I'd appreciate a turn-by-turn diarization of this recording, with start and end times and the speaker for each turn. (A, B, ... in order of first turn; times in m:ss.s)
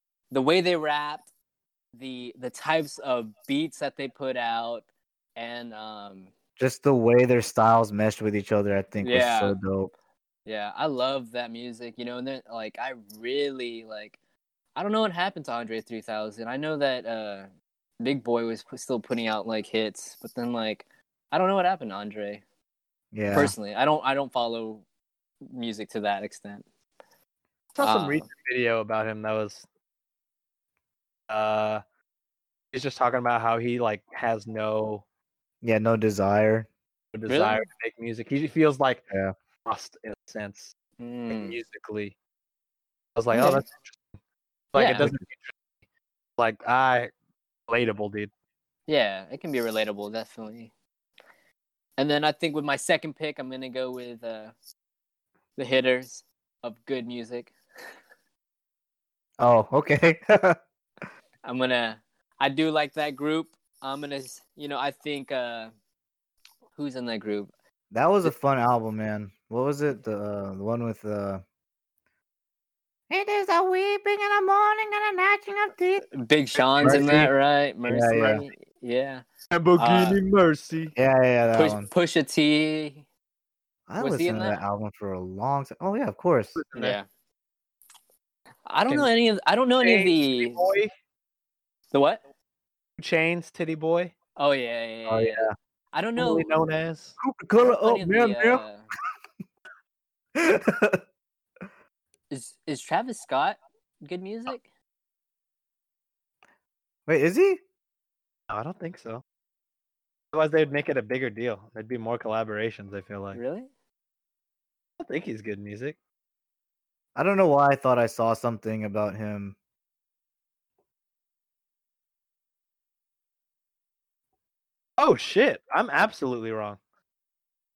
0:00.3-0:01.2 A
0:01.9-0:04.8 A
0:05.4-0:06.3 A
0:06.6-0:09.9 B
0:09.0-0:09.6 A
0:10.4-0:14.2 A
0:14.8-0:17.5 A
0:18.0-0:22.4 A
0:23.1-0:23.5 B
0:23.3-0:24.8 A
0:25.4-0:26.6 A
0:27.7-0:29.6 C
0:27.8-0:28.3 A
0:31.3-0:31.8 C
0:32.7-0:35.0 C
0:35.6-0:36.7 B
0:37.1-0:39.0 C
0:37.3-0:37.6 A
0:39.6-0:40.7 C
0:41.0-0:41.6 A
0:41.3-0:42.1 C
0:43.2-0:44.0 C
0:43.3-0:43.6 A
0:44.7-0:45.5 C
0:44.7-0:45.1 A
0:46.4-0:47.1 C
0:47.7-0:48.3 C
0:48.9-0:50.7 A
0:52.0-0:54.5 A
0:55.6-0:57.5 A
0:59.4-1:00.6 B
1:01.4-1:05.7 A
1:06.8-1:07.5 A
1:07.9-1:11.4 B
1:13.1-1:16.1 B
1:16.1-1:19.2 A
1:16.5-1:17.1 C
1:16.8-1:17.3 B
1:17.9-1:18.4 B
1:19.5-1:20.9 C
1:19.8-1:20.2 A
1:20.9-1:21.9 B
1:21.5-1:23.0 A
1:23.9-1:26.6 B
1:24.0-1:24.6 A
1:26.6-1:27.0 C
1:26.7-1:27.0 A
1:28.6-1:30.7 A
1:29.8-1:30.9 C
1:31.9-1:32.2 A
1:33.0-1:34.1 C
1:34.4-1:36.5 A
1:35.1-1:35.5 B
1:36.2-1:37.2 C
1:37.2-1:38.6 B
1:37.7-1:38.8 A
1:40.3-1:41.0 B
1:42.3-1:44.7 A
1:47.1-1:47.6 B
1:48.5-1:49.2 C
1:50.3-1:53.4 C
1:53.3-1:53.7 A
1:55.0-1:56.0 C
1:57.2-1:59.5 B
2:05.0-2:06.8 C